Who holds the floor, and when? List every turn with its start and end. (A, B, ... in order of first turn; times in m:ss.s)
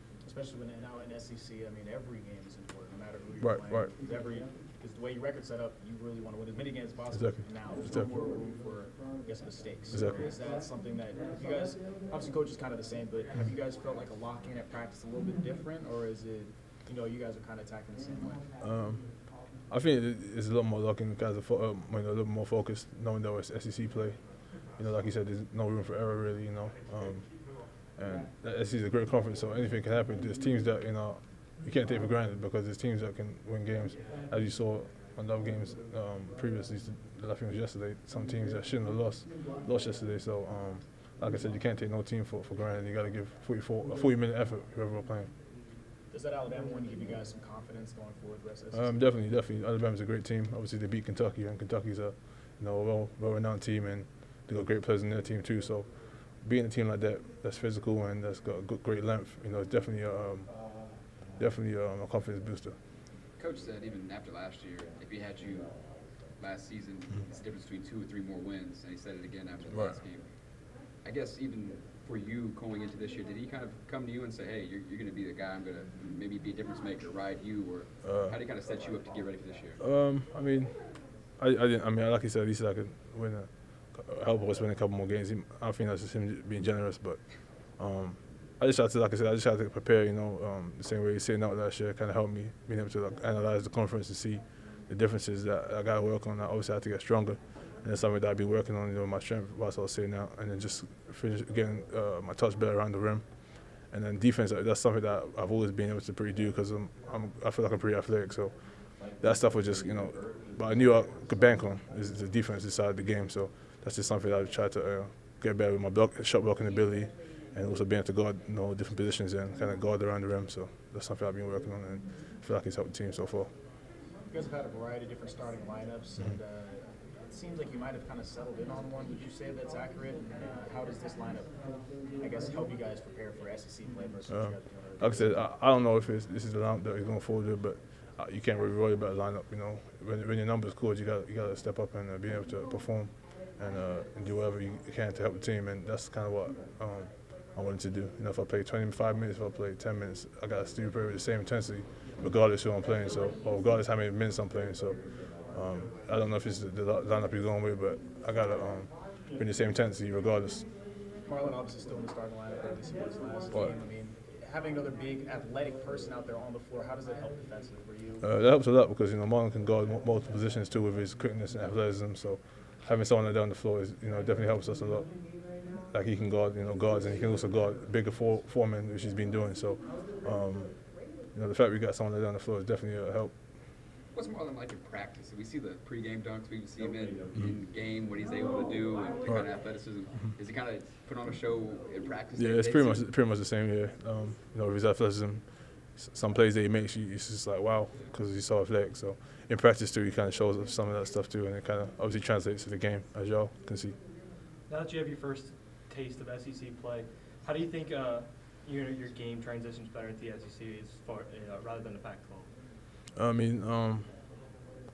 0:00.2-0:18.5 A
0:03.4-0:03.9 B
0:07.1-0:08.1 B
0:09.9-0:10.2 B
0:18.6-0:45.3 B
0:46.1-0:49.1 A
0:48.7-1:02.8 B
1:03.4-1:19.8 C
1:09.7-1:10.0 B
1:18.0-1:18.4 B
1:19.8-2:03.5 B
2:04.2-2:15.4 A
2:14.3-2:40.7 B
2:41.2-2:48.3 A
2:48.2-3:03.6 B
3:04.1-3:13.1 C
3:09.2-3:10.4 B
3:12.4-3:24.0 B
3:24.7-3:32.5 D
3:33.1-3:34.6 B